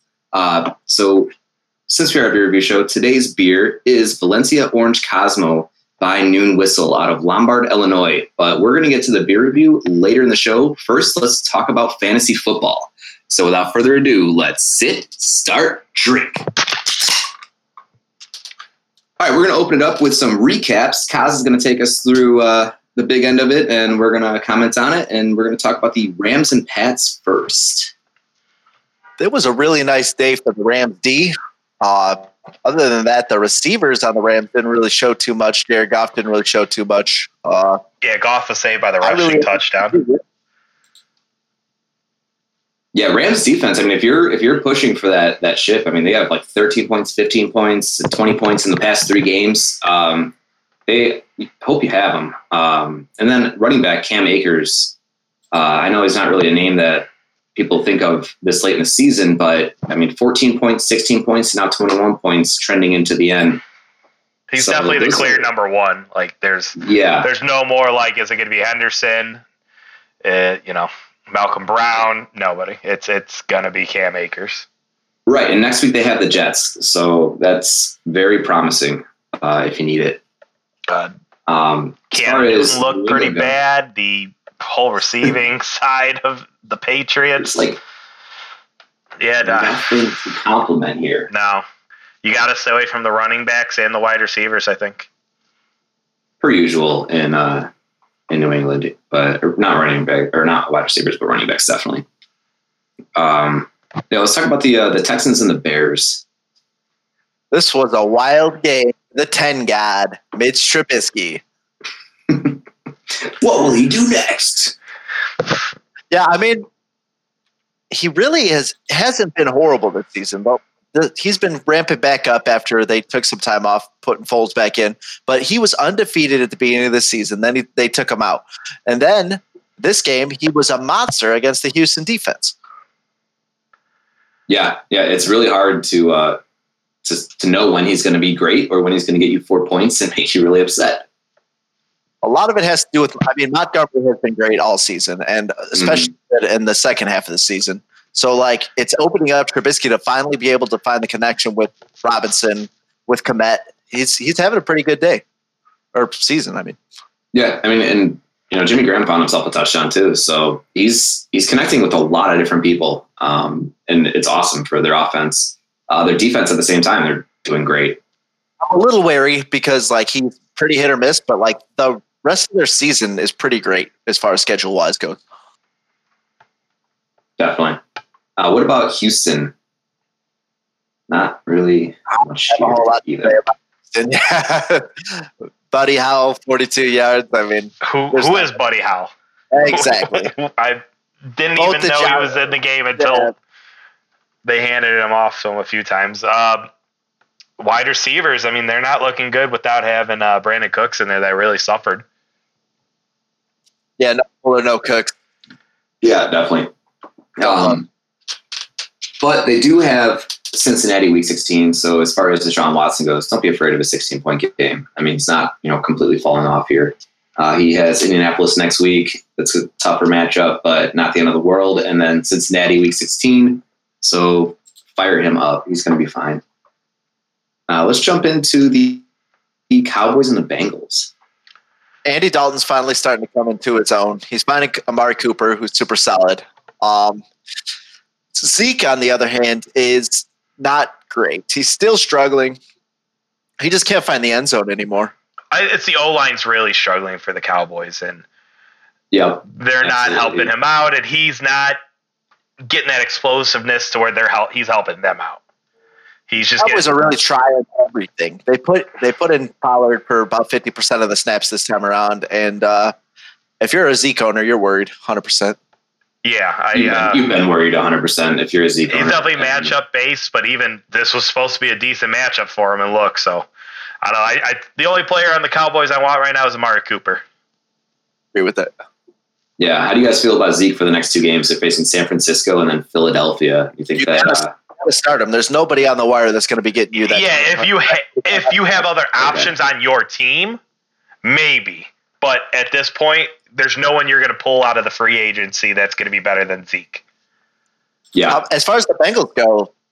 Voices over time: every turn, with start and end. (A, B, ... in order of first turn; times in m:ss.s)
0:00.3-0:01.3 A
0:01.9-0:16.5 A
0:19.2-0:27.9 A
0:29.2-0:37.8 B
0:38.0-0:40.0 C
0:39.0-0:40.2 B
0:42.9-0:50.3 A
0:50.9-0:54.9 A
0:55.5-1:03.6 A
1:04.5-1:09.4 C
1:04.6-1:05.5 A
1:06.8-1:07.3 A
1:10.2-1:14.6 C
1:15.3-1:20.2 A
1:21.5-1:23.5 A
1:22.1-1:27.6 C
1:27.4-1:27.8 A
1:29.2-1:30.0 C
1:29.4-1:31.3 A
1:31.3-1:31.6 C
1:32.2-1:35.1 C
1:36.4-1:37.7 A
1:38.3-1:42.0 A
1:43.1-1:46.2 A
1:47.5-1:51.4 B
1:52.3-1:52.6 A
1:53.2-1:54.8 A
1:56.1-1:56.6 B
1:57.9-2:12.5 B
2:14.5-2:16.4 A
2:17.0-2:21.0 A
2:22.2-2:35.2 B
2:25.7-2:26.1 A
2:35.9-2:36.8 B
2:37.3-2:48.0 A
2:48.6-2:55.2 B
2:57.4-2:57.8 A
2:58.4-2:59.5 A
3:01.1-3:03.4 A
3:02.1-3:08.5 B
3:07.8-3:09.1 C
3:09.5-3:10.3 B
3:09.6-3:13.3 C
3:11.6-3:12.4 B
3:13.0-3:13.3 B
3:14.4-3:16.7 C
3:17.6-3:22.0 C
3:24.0-3:25.1 B
3:26.0-3:26.7 A
3:27.4-3:27.9 A
3:27.4-3:27.8 B
3:29.2-3:46.4 A
3:47.7-3:49.0 A
3:49.7-3:51.1 A
3:52.0-3:57.2 B
3:58.3-4:02.6 B
4:03.6-4:05.1 B
4:05.5-4:08.2 C
4:09.1-4:10.5 A
4:09.5-4:11.8 C
4:12.6-4:15.4 C
4:16.3-4:16.9 C
4:16.6-4:22.9 B
4:23.6-4:25.6 B
4:26.2-4:27.2 C
4:26.7-4:29.7 A
4:28.9-4:33.4 C
4:34.0-4:37.2 C
4:38.3-4:38.7 B
4:39.6-4:44.5 A
4:44.0-4:48.5 B
4:47.0-4:50.6 C
4:49.2-4:49.5 A
4:51.2-4:57.0 C
4:58.1-4:58.4 A
4:58.3-4:59.7 B